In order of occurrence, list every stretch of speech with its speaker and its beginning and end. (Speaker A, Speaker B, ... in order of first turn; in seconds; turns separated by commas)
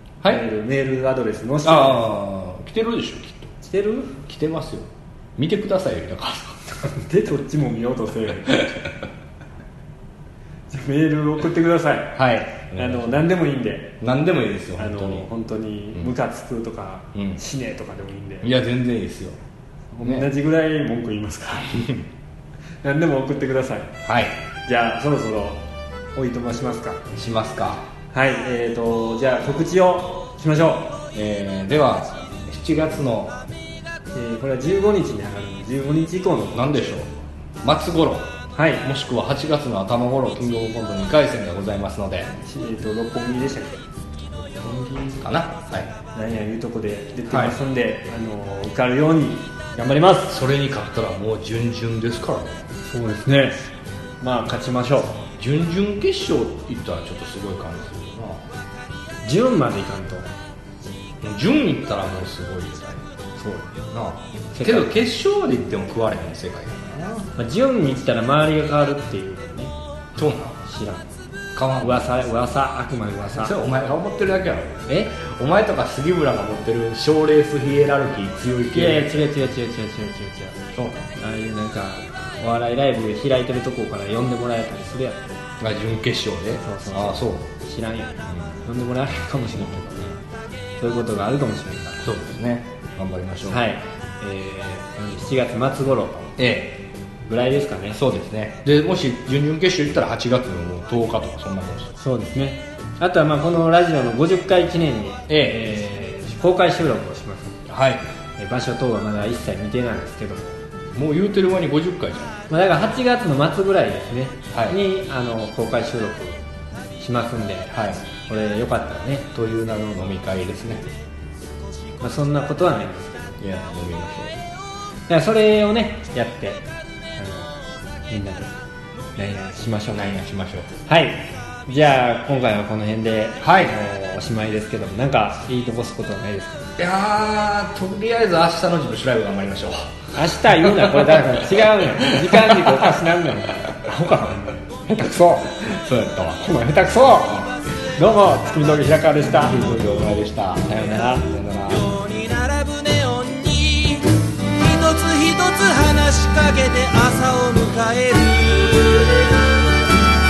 Speaker A: 0.3-2.1, Speaker B: 1.6-3.5, Speaker A: 3.6-4.2, Speaker B: 4.2-6.6, Speaker A: 6.8-8.8, Speaker A: 10.7-14.0, Speaker B: 12.1-13.2, Speaker B: 14.0-15.3, Speaker A: 14.8-18.5, Speaker B: 18.4-19.4, Speaker A: 19.9-21.9, Speaker B: 20.0-20.3, Speaker B: 21.6-22.1, Speaker A: 22.8-23.9, Speaker B: 24.0-24.4, Speaker A: 24.6-25.6, Speaker A: 26.1-27.0, Speaker B: 27.1-27.8, Speaker A: 28.1-30.9, Speaker B: 31.1-33.4, Speaker A: 34.1-36.9, Speaker B: 36.5-38.3, Speaker A: 38.5-38.8, Speaker B: 38.8-42.3, Speaker A: 42.4-43.8, Speaker B: 44.3-45.9, Speaker A: 46.1-50.3, Speaker B: 47.3-47.6, Speaker B: 50.3-52.6, Speaker A: 52.8-53.6, Speaker A: 54.2-55.2, Speaker B: 55.4-58.4, Speaker A: 59.2-60.3, Speaker B: 61.2-63.0, Speaker A: 63.4-63.8, Speaker B: 63.9-67.3, Speaker A: 64.5-64.9, Speaker A: 67.4-69.7, Speaker B: 70.2-70.6, Speaker A: 70.6-71.1, Speaker B: 71.5-72.1, Speaker A: 71.8-73.5, Speaker B: 73.3-79.3, Speaker A: 74.9-75.2, Speaker A: 78.7-85.2, Speaker B: 85.6-87.5, Speaker A: 86.6-90.2, Speaker B: 88.3-88.6, Speaker A: 90.8-92.0, Speaker B: 92.0-93.6, Speaker A: 93.4-96.3, Speaker B: 96.4-96.8, Speaker A: 97.2-98.0, Speaker B: 97.9-101.9, Speaker A: 102.0-107.6, Speaker B: 105.3-105.6, Speaker B: 107.7-108.0, Speaker A: 108.4-110.6, Speaker B: 110.9-112.3, Speaker A: 112.5-116.4, Speaker B: 114.5-114.8, Speaker A: 117.0-119.3, Speaker B: 117.7-118.0, Speaker B: 119.3-120.9, Speaker A: 122.0-123.4, Speaker B: 123.4-124.4, Speaker A: 125.1-127.5, Speaker A: 128.1-128.5, Speaker A: 129.2-130.1, Speaker B: 129.9-130.7, Speaker A: 130.8-136.6, Speaker B: 133.4-133.7, Speaker B: 136.8-143.1, Speaker A: 140.1-145.6, Speaker B: 143.8-144.3, Speaker B: 145.6-146.4, Speaker A: 146.3-149.6, Speaker C: 147.7-147.9, Speaker C: 148.5-148.8, Speaker B: 149.3-151.9, Speaker A: 150.7-151.3, Speaker C: 151.7-159.6